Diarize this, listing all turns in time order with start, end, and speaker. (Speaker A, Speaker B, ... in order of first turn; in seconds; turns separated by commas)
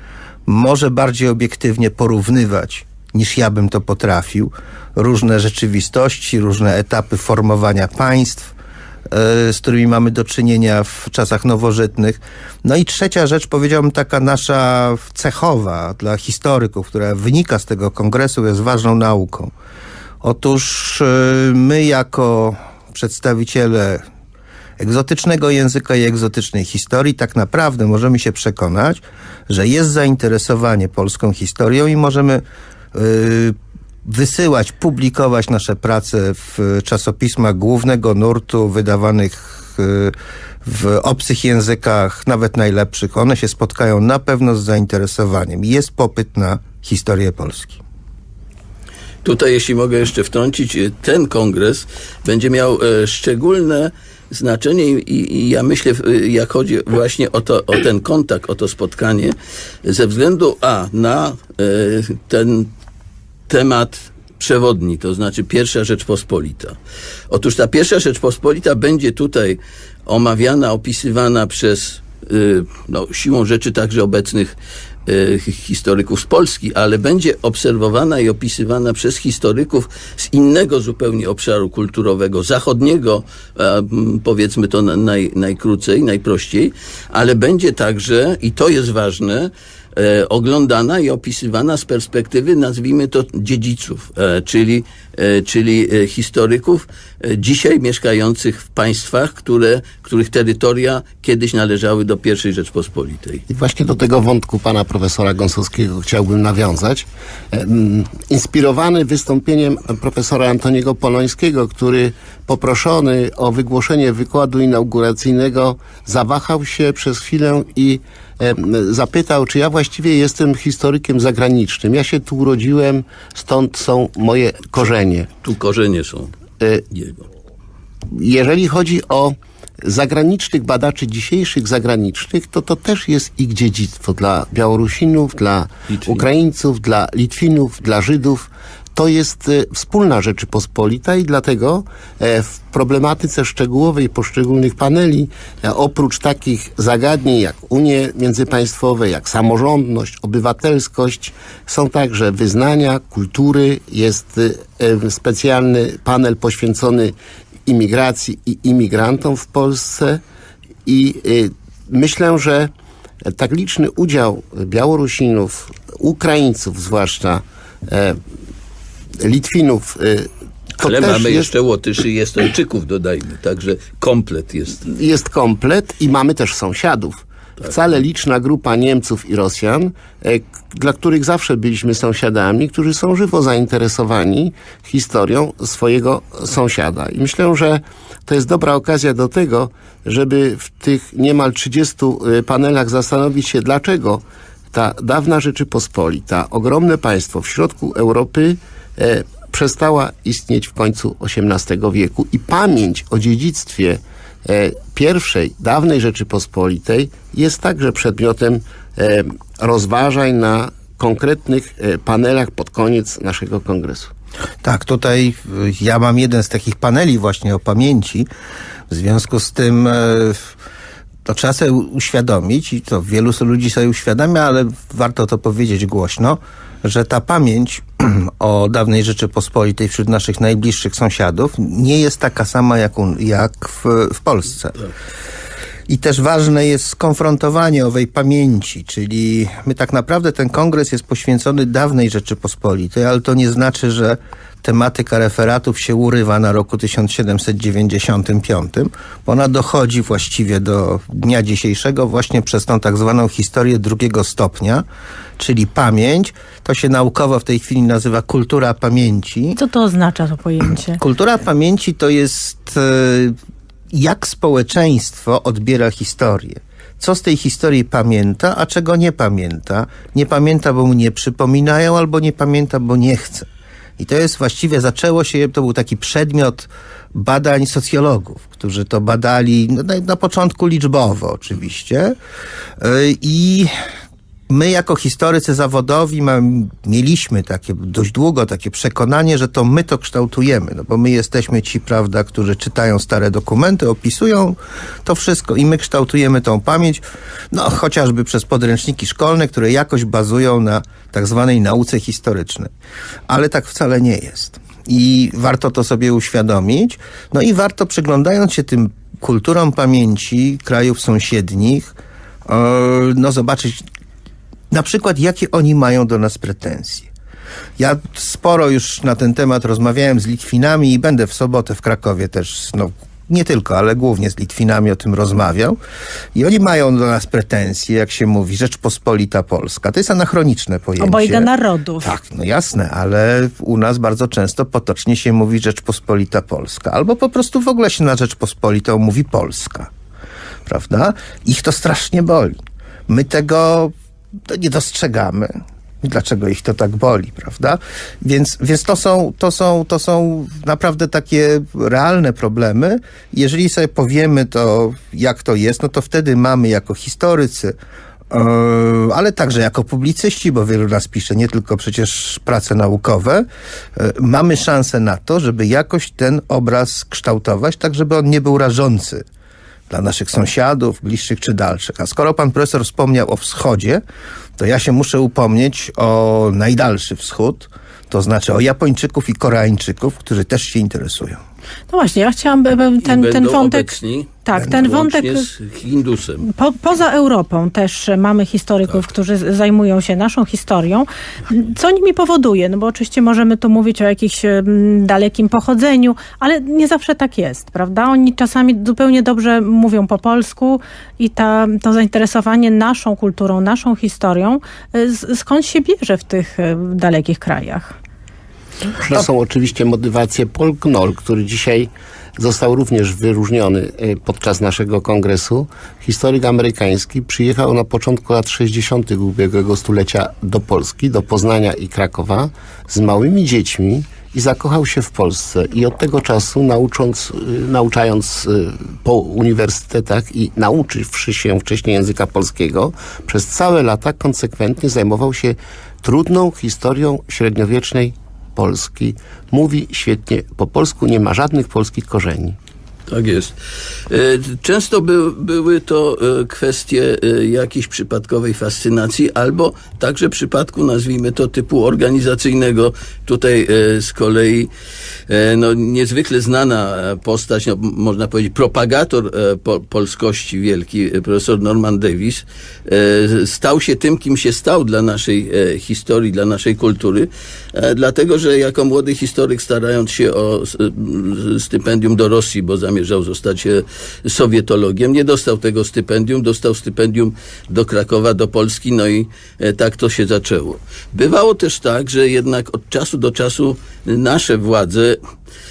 Speaker A: 0.5-8.5, Speaker A: 9.1-19.5, Speaker A: 20.2-24.0, Speaker A: 24.8-32.4, Speaker A: 32.9-40.1, Speaker A: 40.6-47.8, Speaker B: 49.2-62.7, Speaker B: 63.5-66.8, Speaker B: 67.3-74.5, Speaker B: 75.1-103.4, Speaker C: 103.5-125.3, Speaker B: 125.4-126.3, Speaker C: 126.6-126.8, Speaker B: 126.9-127.2, Speaker C: 128.1-157.1, Speaker B: 135.9-136.2, Speaker C: 157.7-160.2, Speaker C: 160.8-162.7, Speaker C: 163.3-168.2, Speaker C: 169.2-170.3, Speaker B: 170.8-174.8, Speaker C: 170.8-171.5, Speaker C: 174.8-214.1, Speaker A: 214.6-218.3, Speaker A: 218.9-220.4, Speaker A: 221.2-234.8, Speaker A: 235.9-254.8, Speaker A: 255.4-259.6, Speaker D: 259.6-261.0, Speaker A: 260.9-263.3, Speaker A: 263.9-273.5, Speaker A: 274.0-282.1, Speaker A: 282.8-283.7, Speaker A: 284.5-302.7, Speaker A: 303.3-313.8, Speaker A: 314.7-317.1, Speaker A: 317.8-325.8, Speaker A: 326.3-331.5, Speaker D: 331.0-332.1, Speaker A: 332.0-339.9, Speaker A: 340.6-342.6, Speaker A: 343.1-343.9, Speaker A: 344.5-357.7, Speaker A: 358.3-369.2, Speaker A: 369.9-374.0, Speaker A: 374.6-381.4, Speaker D: 381.9-385.5, Speaker B: 383.0-386.5, Speaker D: 386.5-407.9, Speaker C: 409.0-442.6, Speaker B: 443.1-443.6, Speaker B: 444.1-454.7, Speaker B: 455.3-485.2